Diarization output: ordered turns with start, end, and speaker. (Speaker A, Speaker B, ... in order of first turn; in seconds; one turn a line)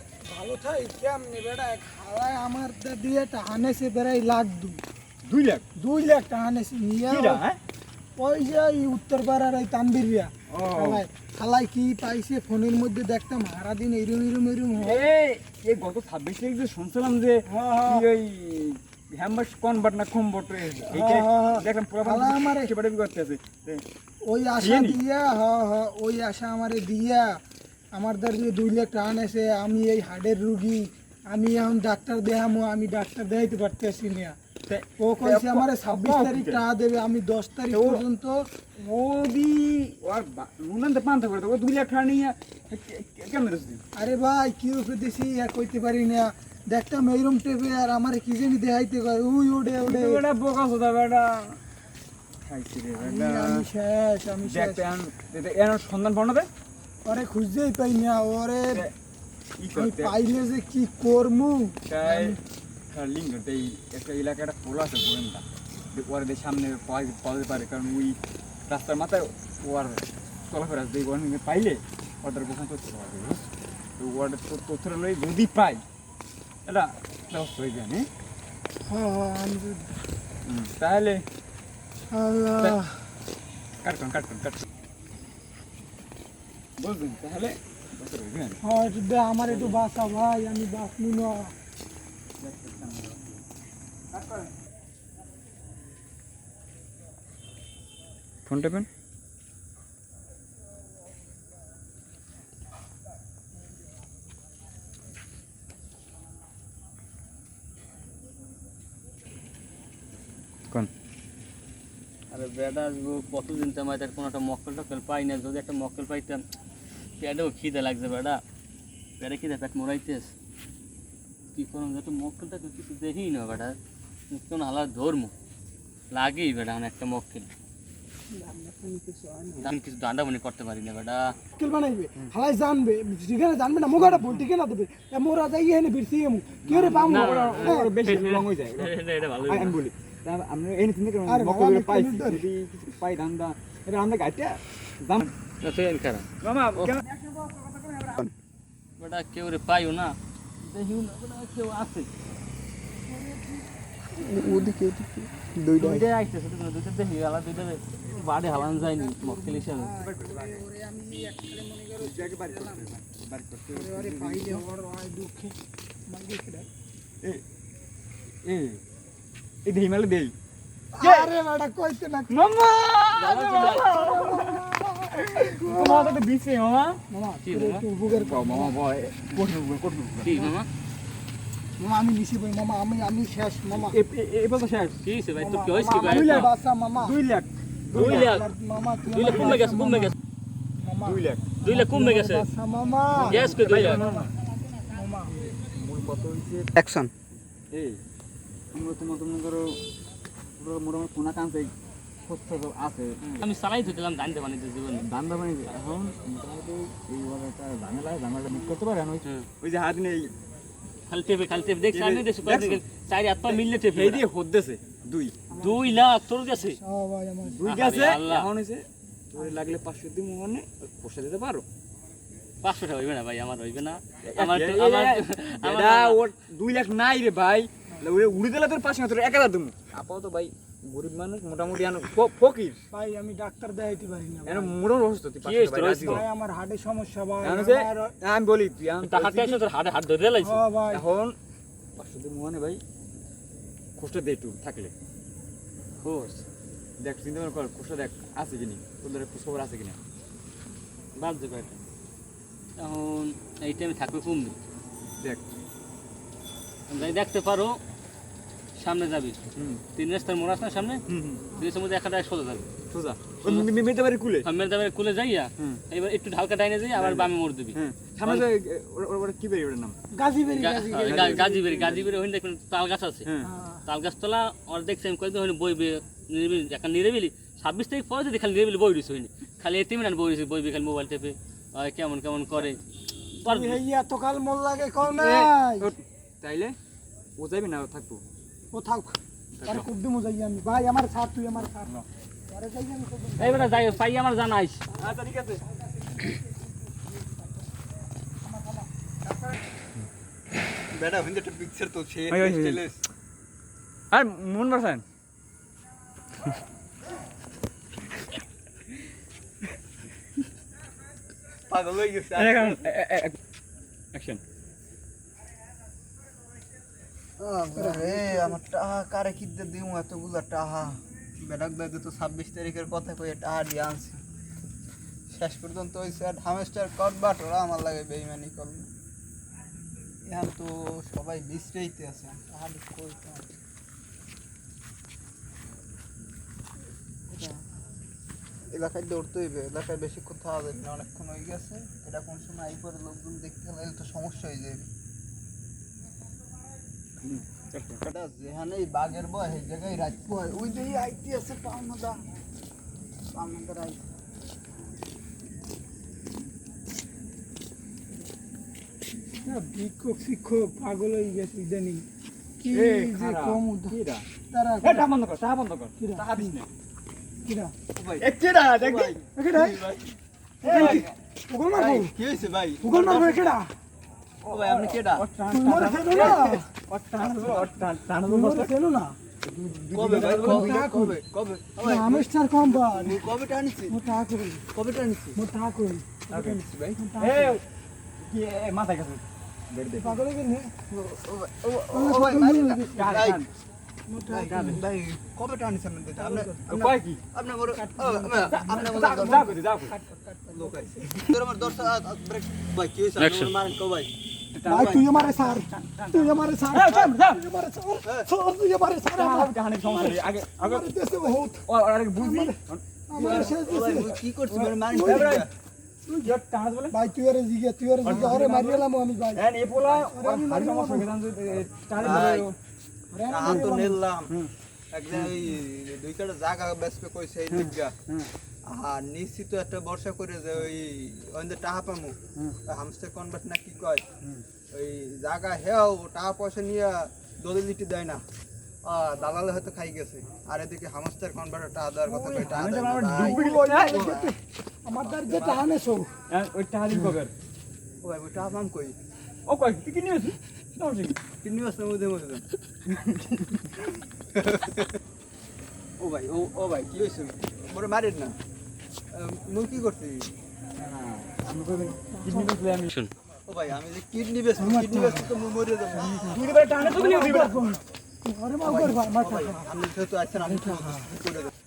Speaker A: 0.2-4.8
Speaker B: 5.2-5.6
Speaker A: 5.8-7.4
Speaker B: 7.0-7.6
Speaker A: 8.2-15.1
Speaker B: 10.5-11.0
Speaker B: 14.8-23.8
Speaker A: 17.4-18.1
Speaker A: 20.8-22.7
Speaker A: 24.2-27.4
Speaker B: 24.6-25.0
Speaker A: 27.9-34.4
Speaker B: 34.7-36.6
Speaker A: 35.0-38.4
Speaker B: 37.7-38.0
Speaker B: 38.8-43.8
Speaker A: 43.9-50.2
Speaker B: 49.8-51.6
Speaker B: 52.5-53.7
Speaker A: 53.0-54.8
Speaker B: 54.4-56.5
Speaker A: 57.0-58.9
Speaker B: 59.6-60.1
Speaker A: 59.7-62.4
Speaker B: 61.9-62.4
Speaker B: 62.9-75.8
Speaker B: 76.7-78.1
Speaker A: 78.8-80.0
Speaker B: 80.5-81.2
Speaker A: 82.1-83.1
Speaker B: 83.8-84.6
Speaker B: 86.8-88.6
Speaker A: 88.6-91.5
Speaker B: 89.4-89.8
Speaker B: 92.4-93.4
Speaker B: 94.1-94.5
Speaker B: 98.5-98.9
Speaker C: 112.3-116.4
Speaker C: 117.2-118.4
Speaker C: 119.2-120.3
Speaker C: 121.5-123.8
Speaker C: 124.3-125.3
Speaker C: 126.1-127.5
Speaker A: 128.3-129.7
Speaker C: 129.6-131.3
Speaker A: 131.5-137.9
Speaker B: 134.0-134.4
Speaker B: 136.7-145.3
Speaker C: 136.9-139.8
Speaker A: 141.2-142.4
Speaker C: 145.6-147.0
Speaker B: 146.4-148.2
Speaker C: 149.0-152.1
Speaker A: 153.1-153.6
Speaker D: 154.2-156.1
Speaker C: 155.8-159.9
Speaker A: 158.2-162.9
Speaker B: 160.0-160.6
Speaker B: 162.0-164.6
Speaker A: 163.7-165.6
Speaker A: 166.1-166.7
Speaker B: 168.4-168.8
Speaker B: 169.6-170.3
Speaker A: 170.9-172.4
Speaker B: 171.0-171.3
Speaker B: 172.3-177.0
Speaker C: 173.1-173.9
Speaker A: 173.7-176.2
Speaker A: 177.1-178.7
Speaker C: 177.4-177.8
Speaker B: 178.1-180.5
Speaker C: 180.2-180.7
Speaker A: 181.8-184.0
Speaker B: 183.7-185.0
Speaker C: 185.0-186.5
Speaker A: 185.4-187.1
Speaker B: 186.0-188.4
Speaker C: 187.9-188.5
Speaker A: 187.9-190.1
Speaker C: 189.0-190.1
Speaker A: 190.8-194.3
Speaker B: 191.0-191.5
Speaker C: 191.6-192.5
Speaker B: 193.1-194.3
Speaker C: 193.2-194.1
Speaker A: 194.8-195.5
Speaker B: 195.7-196.7
Speaker D: 196.7-197.1
Speaker B: 197.7-198.0
Speaker B: 198.7-199.8
Speaker B: 200.6-201.7
Speaker B: 202.2-203.2
Speaker C: 203.2-205.1
Speaker B: 204.9-210.3
Speaker C: 211.1-214.2
Speaker B: 211.9-212.8
Speaker B: 213.4-215.4
Speaker A: 215.5-216.0
Speaker C: 215.6-216.8
Speaker A: 216.8-217.7
Speaker B: 217.4-221.6
Speaker C: 217.6-218.5
Speaker C: 222.6-226.2
Speaker B: 224.2-232.8
Speaker A: 232.9-234.8
Speaker B: 234.4-236.2
Speaker C: 235.4-236.2
Speaker A: 236.0-238.1
Speaker B: 237.4-239.6
Speaker C: 239.0-240.7
Speaker A: 240.4-241.0
Speaker B: 240.9-241.3
Speaker B: 241.9-242.8
Speaker B: 244.0-244.9
Speaker C: 246.0-246.4
Speaker B: 247.0-250.0
Speaker C: 251.2-251.8
Speaker C: 252.8-254.6
Speaker C: 256.9-257.8
Speaker C: 258.8-259.4
Speaker B: 259.5-259.8
Speaker C: 259.9-261.0
Speaker B: 261.1-261.5
Speaker C: 261.5-262.7
Speaker B: 262.9-264.5
Speaker C: 263.4-263.7
Speaker C: 264.4-268.5
Speaker B: 266.9-270.0
Speaker A: 270.1-271.8
Speaker C: 270.5-273.3
Speaker B: 270.9-272.1
Speaker B: 273.2-273.5
Speaker A: 273.4-273.9
Speaker C: 273.9-282.8
Speaker C: 283.4-283.8
Speaker A: 283.4-285.9
Speaker B: 285.1-286.8
Speaker B: 287.4-288.2
Speaker A: 288.7-291.9
Speaker B: 289.5-289.9
Speaker B: 291.8-292.0
Speaker A: 292.5-294.0
Speaker C: 293.4-294.9
Speaker B: 294.9-295.6
Speaker A: 298.4-298.8
Speaker D: 300.9-303.0
Speaker B: 302.3-302.8
Speaker B: 304.1-305.0
Speaker D: 311.7-312.8
Speaker B: 312.3-313.4
Speaker B: 314.1-314.4
Speaker D: 317.4-324.2
Speaker A: 317.8-318.6
Speaker D: 325.3-328.9
Speaker D: 330.2-333.5
Speaker D: 337.3-337.6
Speaker D: 338.7-344.9
Speaker B: 347.2-348.0
Speaker D: 348.0-352.2
Speaker D: 353.3-354.0
Speaker A: 359.4-362.0
Speaker A: 362.6-364.0
Speaker B: 362.7-364.2
Speaker A: 364.5-365.1
Speaker B: 364.8-366.7
Speaker A: 366.0-366.6
Speaker A: 367.4-367.7
Speaker D: 367.9-371.0
Speaker B: 368.2-369.2
Speaker A: 369.3-369.9
Speaker B: 370.6-371.1
Speaker A: 370.6-372.1
Speaker D: 371.7-373.6
Speaker A: 372.8-373.7
Speaker B: 374.4-378.7
Speaker D: 374.5-375.2
Speaker A: 375.5-376.7
Speaker D: 376.1-376.6
Speaker D: 377.2-377.6
Speaker A: 378.2-379.2
Speaker B: 379.4-380.7
Speaker D: 379.9-384.0
Speaker A: 380.1-381.2
Speaker A: 381.8-383.2
Speaker A: 383.9-384.6
Speaker D: 384.7-385.4
Speaker A: 385.3-387.6
Speaker B: 386.3-386.6
Speaker D: 386.6-387.0
Speaker B: 387.2-387.6
Speaker B: 388.2-390.2
Speaker A: 389.9-390.7
Speaker D: 390.9-393.4
Speaker A: 391.9-393.3
Speaker B: 392.9-393.5
Speaker A: 394.1-394.8
Speaker D: 394.3-399.5
Speaker B: 394.4-394.8
Speaker A: 396.2-396.7
Speaker B: 396.7-397.2
Speaker A: 397.7-401.3
Speaker B: 398.4-399.9
Speaker D: 400.5-404.1
Speaker C: 403.2-403.5
Speaker B: 404.5-407.4
Speaker A: 404.6-414.2
Speaker D: 404.7-405.0
Speaker B: 409.1-410.9
Speaker B: 411.6-413.6
Speaker D: 413.2-415.5
Speaker B: 414.5-415.5
Speaker A: 414.9-415.4
Speaker A: 416.1-416.3
Speaker B: 416.2-416.9
Speaker A: 416.9-421.1
Speaker B: 418.0-422.6
Speaker D: 418.1-418.4
Speaker D: 422.0-422.5
Speaker A: 423.1-424.0
Speaker D: 423.3-424.3
Speaker D: 424.9-427.9
Speaker B: 425.1-425.4
Speaker B: 427.5-428.3
Speaker D: 428.6-434.1
Speaker D: 434.7-438.2
Speaker D: 438.8-444.3
Speaker A: 442.0-442.6
Speaker B: 442.4-444.1
Speaker A: 443.1-446.1
Speaker D: 444.9-445.7
Speaker B: 446.3-447.3
Speaker D: 448.0-448.9
Speaker B: 449.5-451.2
Speaker D: 451.4-452.4
Speaker B: 452.9-453.7
Speaker D: 454.4-454.9
Speaker D: 456.0-458.4
Speaker D: 459.1-460.3
Speaker B: 460.8-462.9
Speaker A: 461.6-462.6
Speaker D: 463.4-466.6
Speaker A: 464.6-465.3
Speaker A: 466.1-469.7
Speaker B: 466.2-467.7
Speaker D: 468.6-471.5
Speaker A: 470.4-471.1